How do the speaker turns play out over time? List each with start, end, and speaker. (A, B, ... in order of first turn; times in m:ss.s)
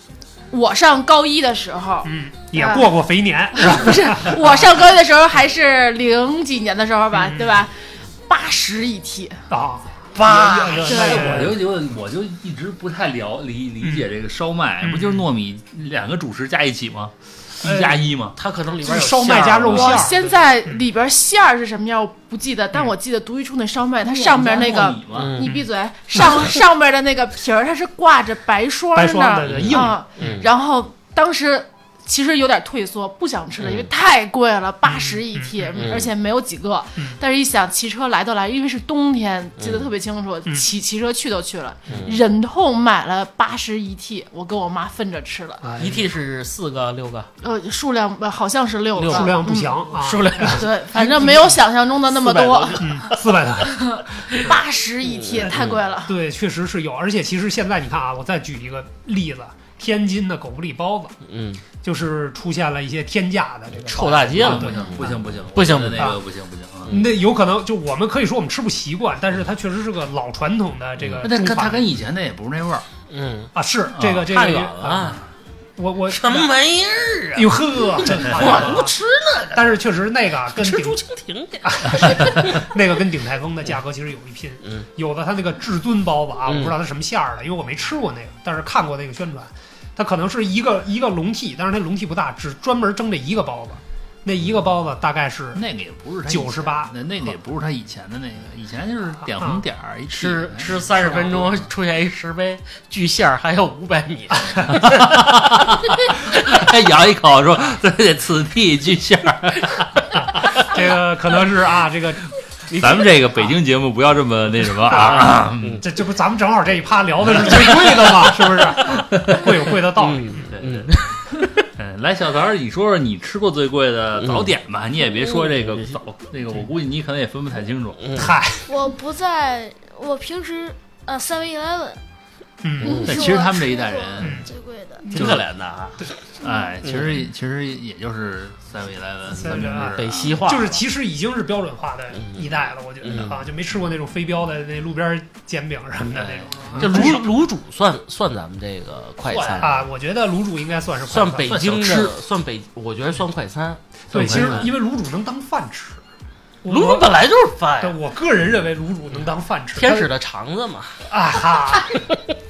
0:00.5-0:02.9 A
0:02.0-0:04.4 B
0:03.6-0:09.4 A
0:07.1-0:07.6 B
0:09.5-0:11.6 B
0:10.1-0:11.5 C
0:10.2-0:18.4 D
0:10.8-0:11.4 A
0:13.8-0:14.1 B
0:14.8-0:15.2 B
0:17.6-0:18.0 B
0:18.3-0:20.4 C
0:18.8-0:20.8 B
0:19.7-0:45.6 A
0:24.0-0:25.3 D
0:25.1-0:25.5 C
0:28.9-0:30.4 B
0:29.5-0:30.5 C
0:33.6-0:33.9 C
0:34.8-0:35.9 B
0:35.8-0:36.1 C
0:39.6-0:39.9 C
0:41.9-0:42.2 C
0:45.6-0:46.0 B
0:45.8-0:47.3 C
0:47.4-0:49.7 A
0:49.0-0:51.6 C
0:49.0-0:50.6 B
0:50.4-0:53.0 A
0:52.1-0:53.2 C
0:52.8-0:53.8 B
0:53.6-0:56.1 A
0:55.2-0:55.8 C
0:56.1-1:01.2 B
1:01.2-1:01.6 C
1:01.8-1:05.1 B
1:03.7-1:06.2 C
1:04.4-1:06.9 D
1:06.9-1:07.1 C
1:06.9-1:11.8 B
1:11.0-1:11.2 C
1:11.2-1:12.8 D
1:13.1-1:13.5 C
1:13.5-1:15.1 B
1:14.0-1:15.2 D
1:14.1-1:15.2 C
1:15.8-1:16.5 B
1:16.1-1:19.8 C
1:17.3-1:18.9 B
1:19.5-1:21.0 B
1:20.5-1:22.6 C
1:21.6-1:35.6 B
1:26.5-1:26.7 C
1:35.5-1:41.6 D
1:36.3-1:36.9 B
1:40.1-1:45.6 C
1:44.7-1:45.8 D
1:46.3-1:49.8 D
1:50.4-1:52.3 B
1:52.7-1:53.1 C
1:52.7-1:55.8 D
1:54.9-1:55.8 C
1:54.9-2:00.5 B
1:57.6-1:57.9 C
1:59.1-1:59.5 D
1:59.9-2:01.2 C
2:00.5-2:01.0 D
2:01.7-2:08.2 D
2:04.2-2:04.5 C
2:05.1-2:06.0 C
2:08.0-2:08.3 C
2:08.1-2:08.7 B
2:08.6-2:12.0 E
2:12.6-2:13.0 B
2:12.8-2:15.2 E
2:12.8-2:13.3 C
2:13.0-2:14.5 D
2:14.2-2:14.5 B
2:15.0-2:15.4 B
2:15.1-2:15.4 D
2:15.1-2:16.0 C
2:16.4-2:20.4 D
2:16.8-2:17.1 C
2:19.3-2:27.2 B
2:19.9-2:20.8 C
2:22.2-2:23.4 C
2:26.2-2:27.0 D
2:26.7-2:29.8 C
2:29.3-2:29.8 D
2:29.6-2:31.6 B
2:31.0-2:34.7 C
2:31.4-2:32.1 D
2:34.1-2:34.7 D
2:34.1-2:36.0 B
2:36.6-2:37.2 B
2:36.6-2:38.0 C
2:37.8-2:40.1 B
2:39.7-2:41.0 C
2:41.1-2:42.0 B
2:41.8-2:42.2 C